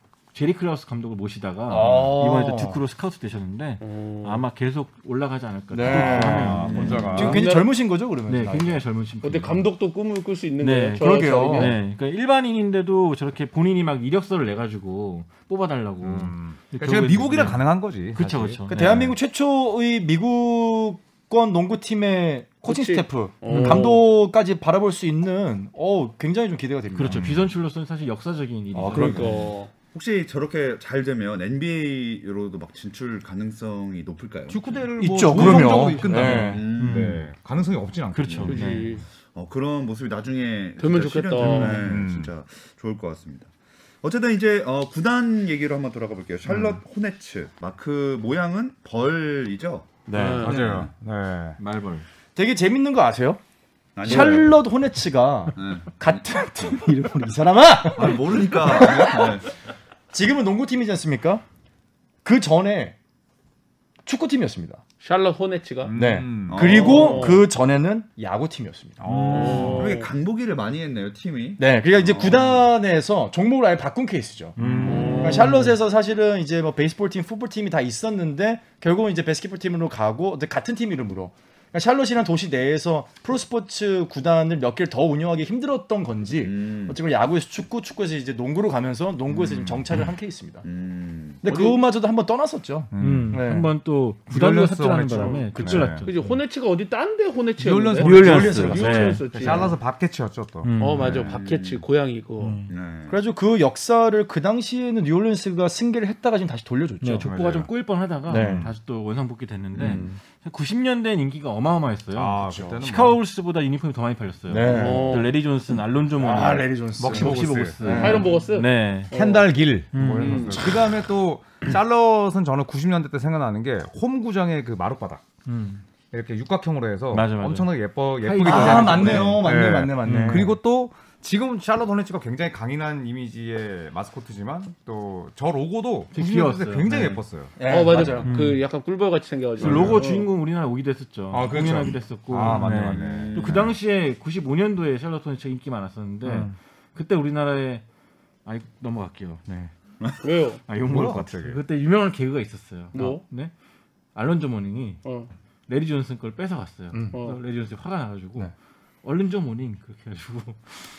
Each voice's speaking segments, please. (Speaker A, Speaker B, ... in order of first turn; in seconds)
Speaker A: 0.3-7.7, 8.2-9.7, 10.6-19.1, 23.4-23.9, 26.9-29.3, 36.0-37.2, 38.1-39.0, 41.4-41.8, 51.6-52.0, 69.0-69.9, 74.6-75.7, 93.0-96.4, 98.0-99.6, 100.6-101.1, 102.4-102.7, 107.0-119.1, 119.9-120.6, 125.5-125.8, 127.1-129.3, 130.0-130.5, 136.1-137.2, 138.2-138.6, 139.6-147.8, 148.4-149.4, 150.7-153.5, 154.1-155.0, 155.7-158.5, 159.0-160.8
Speaker B: 1.7-2.8, 5.7-8.8, 11.0-11.7, 18.7-27.3, 28.7-29.4, 35.0-36.6, 50.1-50.8, 52.4-53.4, 54.0-59.4, 60.1-61.4, 62.2-62.9, 64.0-64.8, 65.9-69.0, 71.6-74.7, 75.2-90.6, 91.4-93.7, 103.1-107.3, 108.3-108.7, 112.5-112.8, 114.5-115.2, 116.2-118.3, 128.4-130.5, 137.6-138.3, 146.2-146.5
Speaker C: 3.8-4.4, 6.8-7.6, 9.2-11.8, 22.6-24.0, 28.9-29.7, 38.5-39.0, 40.8-41.8, 50.1-50.7, 65.0-65.9, 66.6-67.4, 69.3-70.1, 74.8-75.6, 91.5-91.8, 95.2-95.5, 96.0-99.8, 100.8-102.6, 114.7-115.3, 117.9-119.5, 120.2-120.6, 137.6-140.3, 150.2-150.6, 152.9-153.2, 155.0-155.3, 157.1-157.4
Speaker D: 5.9-7.4, 16.0-19.1, 27.0-27.5, 34.5-38.5, 41.8-42.3, 50.4-51.6, 54.1-54.5, 65.8-66.8, 69.0-69.9, 74.6-75.3, 92.9-93.4, 94.3-96.0, 97.6-100.7, 107.2-107.7, 108.3-108.7, 112.1-113.2, 117.0-118.1, 119.1-125.2, 126.1-137.5, 141.3-143.5, 150.8-151.6
Speaker E: 6.4-7.3, 29.1-34.6, 35.3-37.2, 38.2-38.6, 39.2-43.5, 44.0-50.9, 54.0-54.5, 55.5-56.8, 57.9-59.5, 66.5-67.4, 69.8-72.6, 86.4-87.0, 89.3-89.8, 90.6-91.4, 101.0-101.8, 102.7-103.2, 109.8-110.1, 128.5-129.5, 142.9-143.8